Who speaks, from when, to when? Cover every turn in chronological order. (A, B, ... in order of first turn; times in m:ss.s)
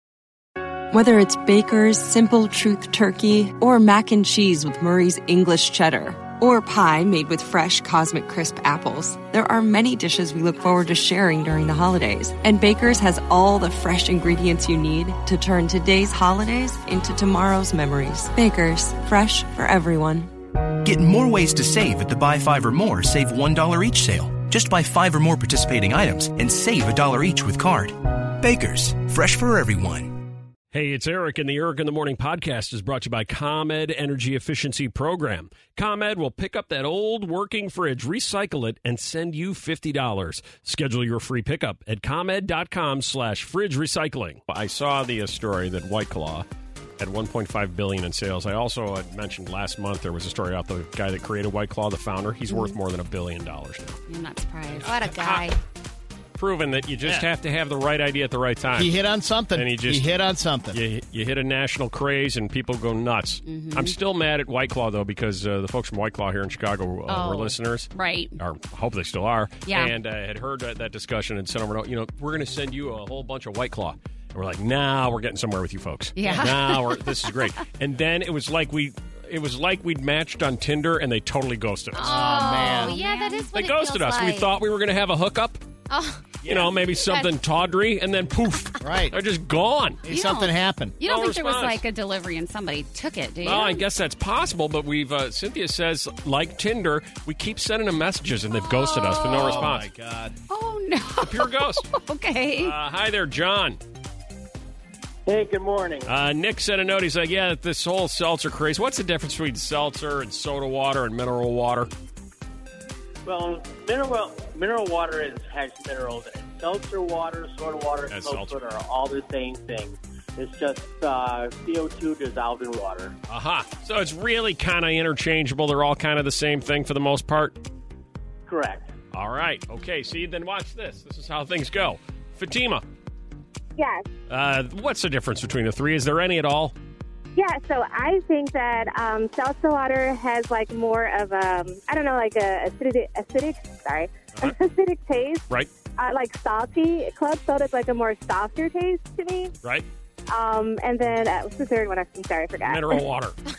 0:00.9-0:20.3 A
0:20.8-0:30.1 B
0:30.7-0:46.5 C
0:47.0-0:54.0 C
0:54.1-0:55.0 D
0:54.7-0:55.5 C
0:54.8-0:55.6 E
0:56.4-0:58.9 C
0:58.8-1:00.8 F
0:59.5-1:00.0 C
1:00.7-1:22.4 C
1:03.4-1:04.0 D
1:07.1-1:08.4 D
1:09.6-1:09.9 D
1:16.2-1:17.6 D
1:21.9-1:23.5 D
1:22.0-1:24.5 E
1:22.1-1:23.0 F
1:23.5-1:25.6 C
1:25.9-1:27.2 E
1:26.4-1:30.0 C
1:28.8-1:29.2 F
1:30.0-1:31.0 F
1:30.1-1:33.8 D
1:31.0-1:31.8 C
1:33.4-1:39.9 C
1:38.6-1:39.8 D
1:39.3-1:40.4 F
1:40.5-1:42.8 D
1:41.2-1:41.9 C
1:42.6-1:43.8 C
1:45.3-1:46.1 G
1:46.0-1:51.9 C
1:53.3-2:03.1 G
1:58.1-1:58.6 C
2:03.3-2:07.6 C
2:08.5-2:08.9 G
2:09.1-2:12.8 C
2:13.8-2:14.0 H
2:14.3-2:16.7 C
2:17.4-2:25.4 H
2:26.0-2:29.5 H
2:30.3-2:33.0 H
2:32.6-2:33.4 C